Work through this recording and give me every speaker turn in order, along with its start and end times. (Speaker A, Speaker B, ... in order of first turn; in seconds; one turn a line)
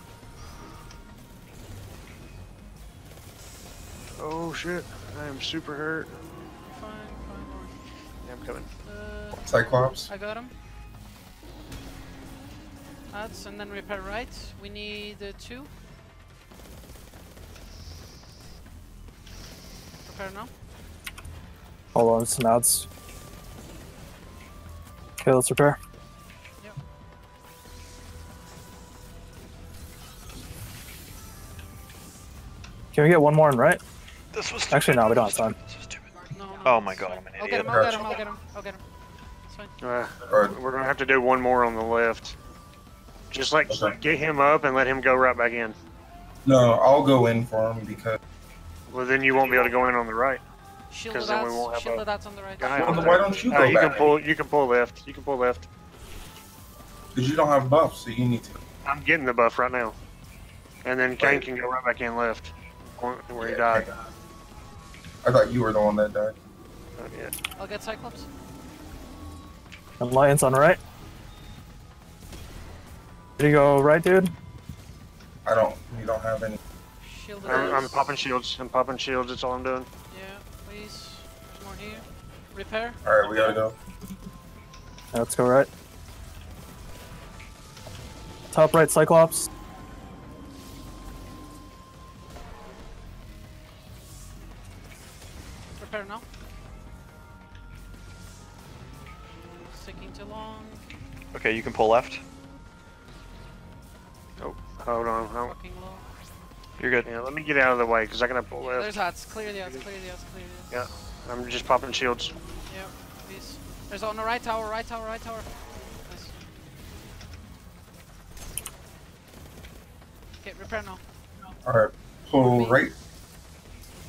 Speaker A: 4.2-6.2
Speaker B: 6.7-7.8
Speaker A: 8.2-8.7
Speaker B: 8.8-10.5
Speaker C: 9.4-10.1
Speaker B: 13.1-15.7
Speaker B: 20.0-20.5
Speaker D: 21.9-22.9
Speaker D: 25.2-25.8
Speaker D: 32.9-33.8
Speaker E: 34.3-37.8
Speaker D: 34.7-35.6
Speaker B: 36.3-38.8
Speaker C: 37.6-38.2
Speaker B: 39.4-39.7
Speaker A: 39.8-42.4
Speaker C: 40.2-40.6
Speaker A: 43.3-45.8
Speaker C: 43.7-44.0
Speaker C: 46.4-48.2
Speaker A: 48.9-50.4
Speaker C: 49.4-49.7
Speaker B: 50.9-53.2
Speaker A: 51.1-52.0
Speaker A: 52.6-55.7
Speaker C: 52.7-54.2
Speaker C: 57.1-58.6
Speaker A: 58.8-60.0
Speaker A: 60.8-63.9
Speaker C: 61.2-61.4
Speaker C: 63.4-64.0
Speaker C: 65.2-66.4
Speaker A: 67.0-67.3
Speaker B: 67.5-68.3
Speaker D: 70.0-70.8
Speaker D: 73.4-74.3
Speaker C: 75.4-76.6
Speaker B: 77.0-77.9
Speaker A: 77.4-79.9
Speaker B: 80.1-83.0
Speaker C: 83.0-83.8
Speaker D: 85.1-85.7
Speaker D: 88.5-89.5
Speaker B: 95.8-96.3
Speaker B: 99.7-100.8
Speaker E: 101.3-102.2
Speaker A: 104.4-105.5
Speaker B: 105.2-106.0
Speaker E: 106.8-107.1
Speaker A: 107.0-109.8
Speaker B: 108.6-110.9
Speaker A: 110.7-112.3
Speaker B: 112.7-116.4
Speaker B: 120.4-121.0
Speaker C: 121.6-122.9
Speaker B: 122.4-122.8